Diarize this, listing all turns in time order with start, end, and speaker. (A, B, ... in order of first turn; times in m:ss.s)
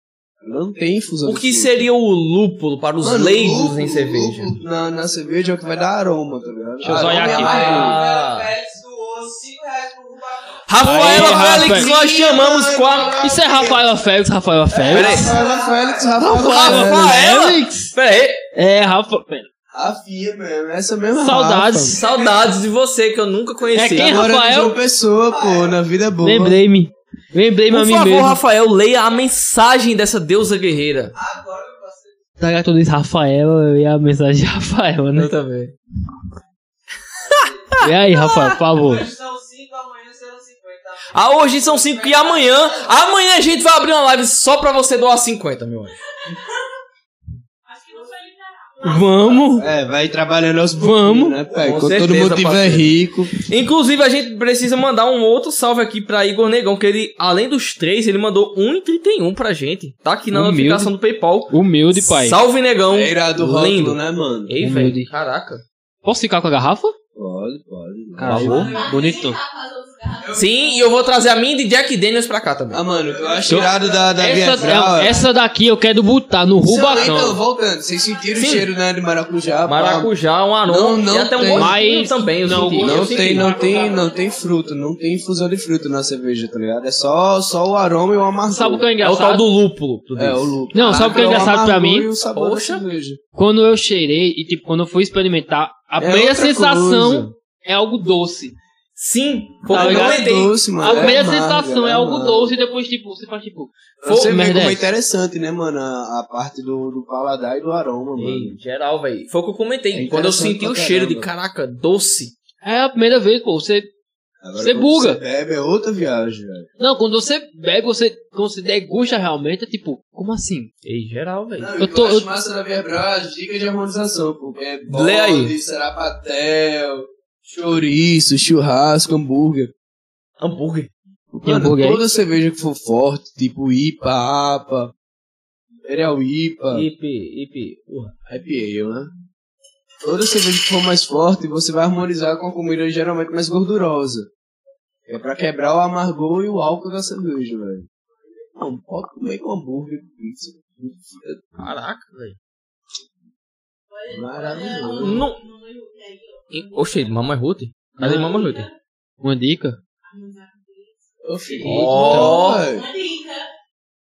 0:00.4-0:01.9 A
0:01.2-0:04.6 B
0:03.0-0:08.0 A
0:06.8-0:07.6 C
0:06.9-0:08.5 B
0:07.2-0:10.7 D
0:10.7-0:13.2 B
0:10.8-0:11.9 C
0:10.9-0:13.9 A
0:13.2-0:15.3 C
0:14.8-0:16.2 D
0:14.8-0:17.3 A
0:14.9-0:15.4 B
0:16.2-0:17.9 C
0:16.3-0:18.4 B
0:18.5-0:19.5 C
0:19.7-0:22.0 A
0:21.2-0:22.0 C
0:22.0-0:24.2 B
0:22.0-0:22.5 D
0:23.7-0:24.8 C
0:24.0-0:26.6 A
0:25.2-0:25.8 D
0:26.2-0:28.4 C
0:27.7-0:31.1 B
0:31.1-0:32.2 D
0:32.4-0:35.3 C
0:35.1-0:35.8 B
0:37.3-0:37.8 D
0:37.3-0:38.4 B
0:37.8-0:39.1 C
0:38.7-0:42.9 D
0:41.1-0:46.0 B
0:47.7-0:49.6 E
0:48.8-0:49.7 C
0:49.6-0:53.4 A
0:50.8-0:51.4 C
0:51.6-1:05.6 B
1:00.3-1:00.9 C
1:01.5-1:02.4 C
1:02.9-1:04.6 A
1:04.6-1:05.1 C
1:06.0-1:07.0 C
1:07.2-1:08.7 A
1:08.2-1:09.4 C
1:08.2-1:08.7 B
1:08.4-1:09.0 D
1:08.6-1:10.5 E
1:10.2-1:10.8 D
1:10.4-1:12.8 B
1:12.7-1:15.2 A
1:13.0-1:15.2 D
1:13.5-1:17.4 C
1:16.6-1:20.1 A
1:18.4-1:18.7 B
1:19.7-1:23.5 B
1:20.7-1:21.8 A
1:21.5-1:23.6 C
1:22.8-1:28.9 A
1:23.4-1:24.2 E
1:28.5-1:29.4 C
1:29.0-1:31.6 B
1:30.2-1:33.2 A
1:30.7-1:32.1 C
1:32.3-1:32.9 B
1:33.4-1:38.6 C
1:36.0-1:37.3 A
1:39.0-1:40.6 B
1:39.7-1:40.2 C
1:39.7-1:42.5 A
1:40.8-1:44.8 C
1:44.0-1:48.6 A
1:44.1-1:44.5 B
1:48.2-1:52.3 B
1:49.9-1:51.3 A
1:52.6-1:53.9 C
1:54.4-1:56.7 A
1:54.6-1:55.2 C
1:56.8-2:00.7 C
2:00.8-2:01.8 B
2:01.6-2:09.7 A
2:01.8-2:02.3 C
2:04.9-2:05.5 B
2:10.4-2:10.9 B
2:11.4-2:12.0 C
2:11.4-2:14.9 A
2:15.9-2:16.9 A
2:16.7-2:18.1 B
2:18.3-2:19.1 A
2:20.0-2:24.3 A
2:25.1-2:27.9 A
2:28.6-2:31.4 A
2:31.6-2:32.4 B
2:33.9-2:37.1 E
2:34.1-2:35.3 A
2:34.8-2:35.4 B
2:36.5-2:38.7 B
2:38.0-2:38.3 C
2:38.2-2:38.7 E
2:39.2-2:39.8 C
2:40.1-2:41.2 E
2:41.2-2:42.9 A
2:41.6-2:42.4 C
2:41.6-2:42.6 B
2:42.5-2:43.5 E